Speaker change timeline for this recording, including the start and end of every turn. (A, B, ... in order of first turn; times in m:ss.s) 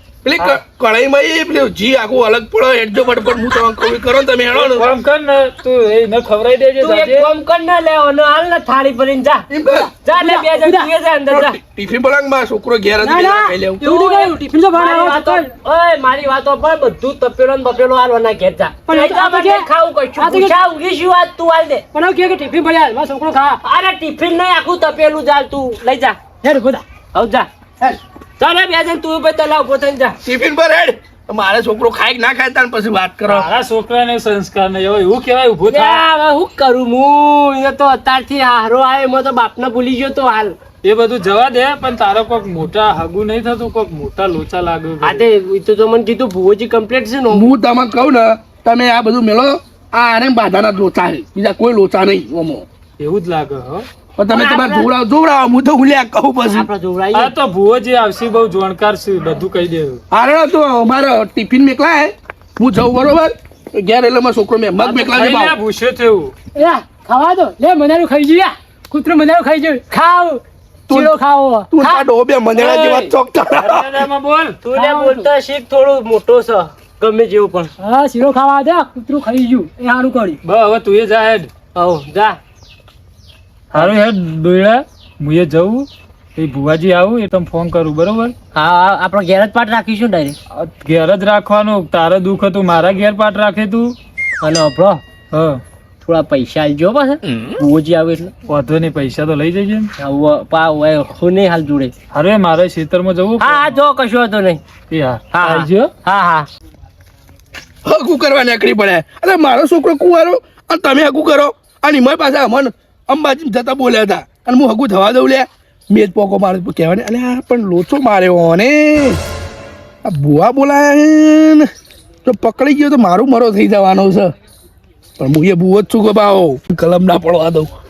0:00.2-0:04.9 A
0:04.5-0:07.3 B
0:06.8-0:09.5 C
0:09.5-0:09.9 A
0:09.7-0:10.9 D
0:10.0-0:11.6 C
0:11.3-0:14.1 A
0:13.0-0:15.4 D
0:14.7-0:21.8 C
0:18.9-0:20.6 D
0:21.9-0:23.6 D
0:23.6-0:26.2 C
0:26.4-0:26.8 D
0:27.1-0:30.2 C
0:30.2-0:33.5 A
0:33.3-0:36.0 B
0:35.7-0:40.6 C
0:40.8-0:45.3 B
0:45.0-0:47.5 C
0:47.3-0:52.7 A
0:53.0-0:53.9 B
0:54.2-0:56.7 A
0:54.3-0:54.9 C
0:56.5-0:57.3 C
0:57.1-1:00.0 B
1:00.1-1:05.6 A
1:04.9-1:06.3 B
1:06.6-1:12.0 D
1:10.9-1:11.2 A
1:11.7-1:13.9 A
1:12.6-1:14.6 B
1:14.6-1:17.7 C
1:14.7-1:15.3 D
1:17.8-1:20.4 D
1:20.4-1:21.5 B
1:21.8-1:22.4 C
1:23.7-1:28.4 B
1:28.5-1:30.4 C
1:30.5-1:34.0 B
1:34.4-1:35.0 C
1:35.3-1:35.6 B
1:36.0-1:38.3 C
1:38.5-1:39.9 B
1:40.0-1:41.9 C
1:42.1-1:43.8 B
1:43.4-1:44.6 C
1:44.9-1:45.9 B
1:45.3-1:46.5 C
1:47.8-1:59.2 A
2:00.0-2:01.7 A
2:02.2-2:04.3 A
2:05.2-2:07.7 A